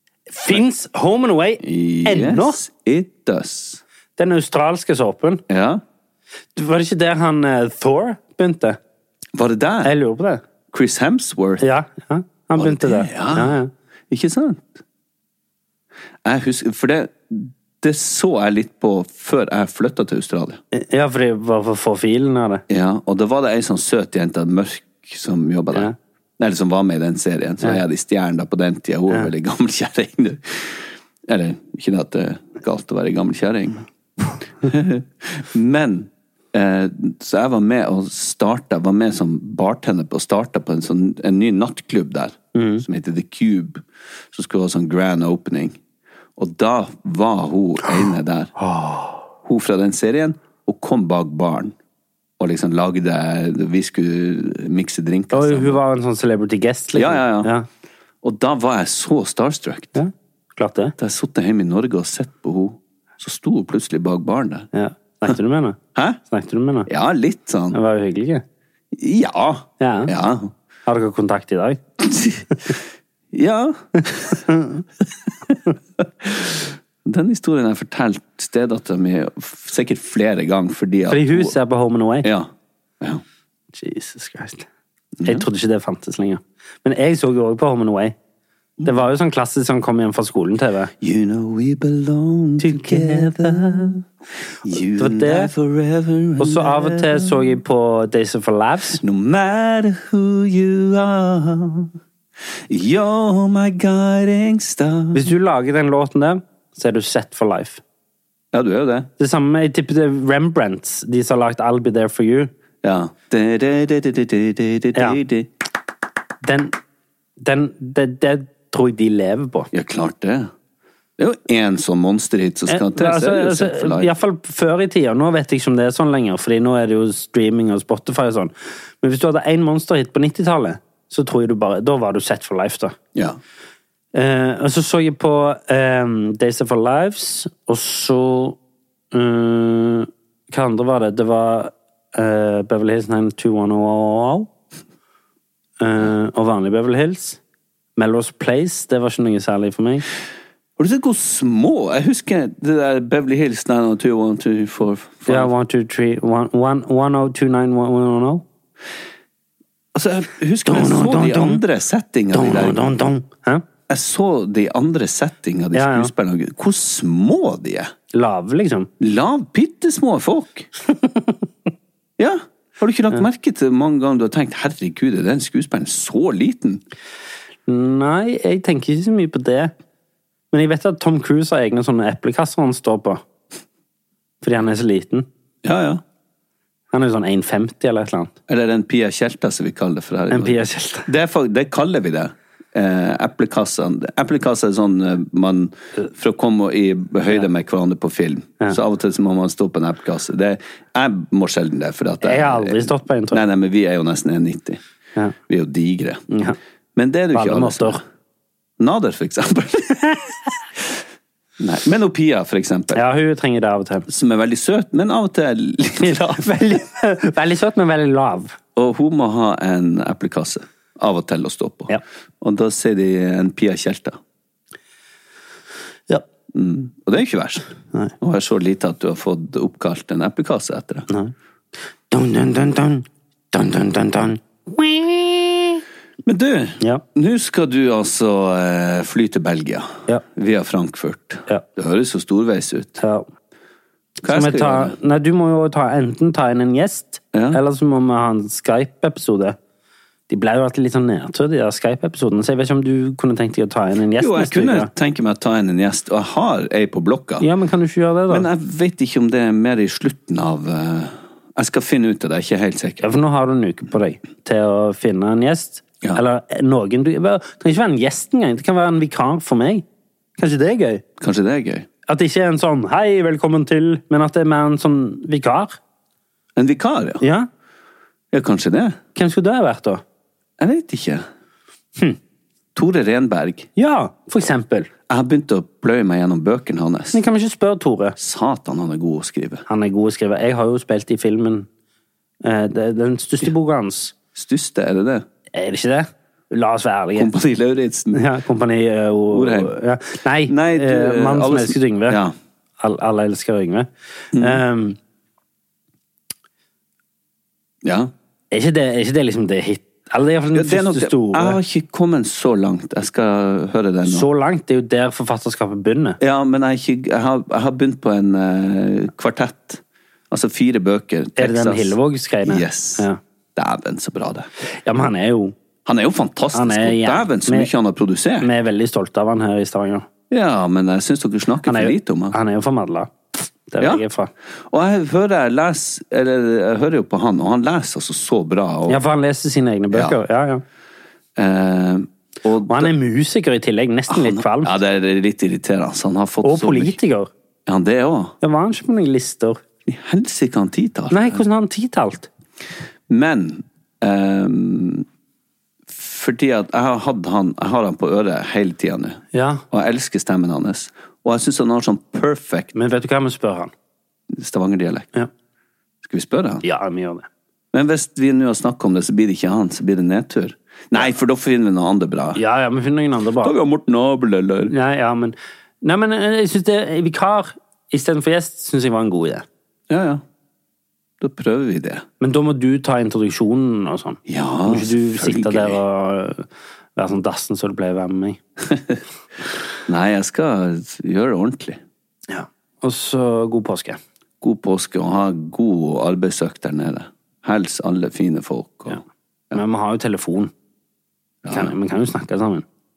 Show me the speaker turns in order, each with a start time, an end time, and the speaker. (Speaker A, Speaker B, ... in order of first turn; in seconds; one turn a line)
Speaker A: 0.3-2.6
Speaker B: 1.6-3.8
Speaker A: 4.2-5.4
Speaker B: 5.5-5.8
Speaker A: 6.6-8.8
Speaker B: 9.3-9.9
Speaker A: 9.8-10.4
Speaker B: 10.7-11.6
Speaker A: 11.6-13.7
Speaker B: 12.6-13.6
Speaker B: 14.1-14.8
Speaker B: 16.2-20.6
Speaker A: 20.7-22.6
Speaker B: 22.7-33.9
Speaker B: 34.6-45.8
Speaker A: 42.5-42.8
Speaker B: 46.4-48.5
Speaker A: 48.6-49.2
Speaker B: 49.4-51.7
Speaker B: 52.4-55.8
Speaker A: 55.3-57.7
Speaker B: 56.9-57.5
Speaker B: 58.2-60.0
Speaker A: 60.0-61.0
Speaker B: 61.0-64.7
Speaker A: 64.7-66.9
Speaker B: 66.9-67.8
Speaker A: 67.7-68.4
Speaker B: 68.9-70.5
Speaker A: 69.8-70.1
Speaker A: 70.9-71.8
Speaker B: 72.0-72.5
Speaker B: 73.3-74.4
Speaker A: 74.5-74.8
Speaker B: 76.0-81.5
Speaker A: 81.1-82.3
Speaker B: 82.2-82.5
Speaker A: 83.7-84.7
Speaker B: 85.2-85.5
Speaker A: 85.2-88.2
Speaker A: 88.8-90.9
Speaker B: 91.0-94.0
Speaker A: 92.6-93.9
Speaker B: 94.7-97.5
Speaker A: 95.0-95.5
Speaker A: 96.4-99.0
Speaker B: 99.0-101.9
Speaker B: 102.7-105.3
Speaker A: 105.1-107.8
Speaker B: 108.5-109.1
Speaker A: 109.2-112.5
Speaker B: 112.8-115.5
Speaker A: 116.4-116.8
Speaker A: 117.4-119.7
Speaker B: 119.7-120.5
Speaker B: 121.2-124.1
Speaker A: 122.7-133.0
Speaker A: 134.1-138.6
Speaker A: 139.1-144.5
Speaker A: 145.8-147.4
Speaker A: 148.0-150.1
Speaker B: 150.8-155.5
Speaker A: 155.3-158.4
Speaker B: 159.9-162.8
Speaker A: 160.7-161.6
Speaker A: 162.3-163.6
Speaker B: 163.9-167.9
Speaker A: 165.7-166.1
Speaker A: 168.1-168.9
Speaker B: 169.0-170.7
Speaker A: 171.0-171.3
Speaker B: 172.2-176.8
Speaker A: 177.7-179.7
Speaker A: 180.5-183.2
Speaker A: 184.4-185.3
Speaker B: 185.6-186.0
Speaker A: 186.9-188.3
Speaker B: 188.5-204.8
Speaker A: 190.3-191.1
Speaker A: 202.2-203.4
Speaker B: 205.5-206.2
Speaker A: 206.3-206.6
Speaker B: 207.0-208.0
Speaker A: 207.3-208.0
Speaker B: 208.8-210.3
Speaker B: 211.6-213.0
Speaker A: 212.9-214.1
Speaker B: 214.1-216.6
Speaker A: 216.0-218.6
Speaker B: 218.8-221.9
Speaker B: 222.4-224.2
Speaker B: 226.5-227.7
Speaker B: 228.2-231.1
Speaker A: 232.1-235.8
Speaker B: 236.2-243.0
Speaker A: 243.0-243.3
Speaker A: 244.2-249.6
Speaker B: 244.2-245.0
Speaker B: 247.3-247.6
Speaker A: 250.3-254.9
Speaker B: 254.2-257.5
Speaker A: 257.4-258.5
Speaker B: 258.3-263.1
Speaker A: 263.0-269.9
Speaker A: 270.4-271.0
Speaker B: 271.2-271.9
Speaker A: 272.1-275.8
Speaker B: 276.6-277.2
Speaker A: 277.2-277.5
Speaker B: 278.3-279.0
Speaker A: 279.1-280.0
Speaker B: 280.6-281.2
Speaker B: 282.8-283.7
Speaker A: 283.8-284.9
Speaker B: 285.1-287.2
Speaker A: 287.1-288.2
Speaker B: 288.2-289.6
Speaker A: 289.7-291.7
Speaker A: 292.4-294.1
Speaker B: 294.3-295.3
Speaker A: 295.5-297.3
Speaker B: 297.1-298.2
Speaker A: 298.1-302.2
Speaker B: 299.3-299.8
Speaker B: 300.5-302.3
Speaker A: 302.8-305.0
Speaker B: 304.3-304.6
Speaker B: 307.8-308.1
Speaker A: 308.5-311.6
Speaker B: 310.5-314.3
Speaker A: 314.1-316.2
Speaker B: 316.2-324.5
Speaker A: 321.4-323.2
Speaker A: 324.9-325.6
Speaker B: 325.9-328.5
Speaker A: 326.5-327.7
Speaker A: 328.4-330.1
Speaker B: 330.3-332.4
Speaker A: 331.6-333.1
Speaker A: 333.7-334.3
Speaker B: 334.7-339.0
Speaker A: 338.9-340.6
Speaker B: 339.9-340.2
Speaker B: 341.4-342.9
Speaker A: 342.7-344.7
Speaker B: 344.1-347.0
Speaker A: 346.4-347.3
Speaker B: 347.7-348.4
Speaker A: 348.4-349.6
Speaker B: 349.9-351.4
Speaker A: 351.1-352.3
Speaker B: 353.1-355.1
Speaker B: 355.9-362.7
Speaker A: 359.3-359.6
Speaker A: 362.7-363.7
Speaker B: 364.3-365.1
Speaker B: 366.0-366.6
Speaker A: 366.6-367.3
Speaker B: 367.7-372.4
Speaker A: 372.4-373.6
Speaker B: 373.4-374.7
Speaker A: 374.7-379.5
Speaker B: 379.9-380.2
Speaker B: 381.2-382.1
Speaker A: 382.2-388.4
Speaker B: 384.3-385.8
Speaker B: 389.9-391.8
Speaker A: 392.3-394.0
Speaker B: 394.4-399.6
Speaker A: 399.5-400.5
Speaker B: 401.4-401.7
Speaker A: 401.5-402.6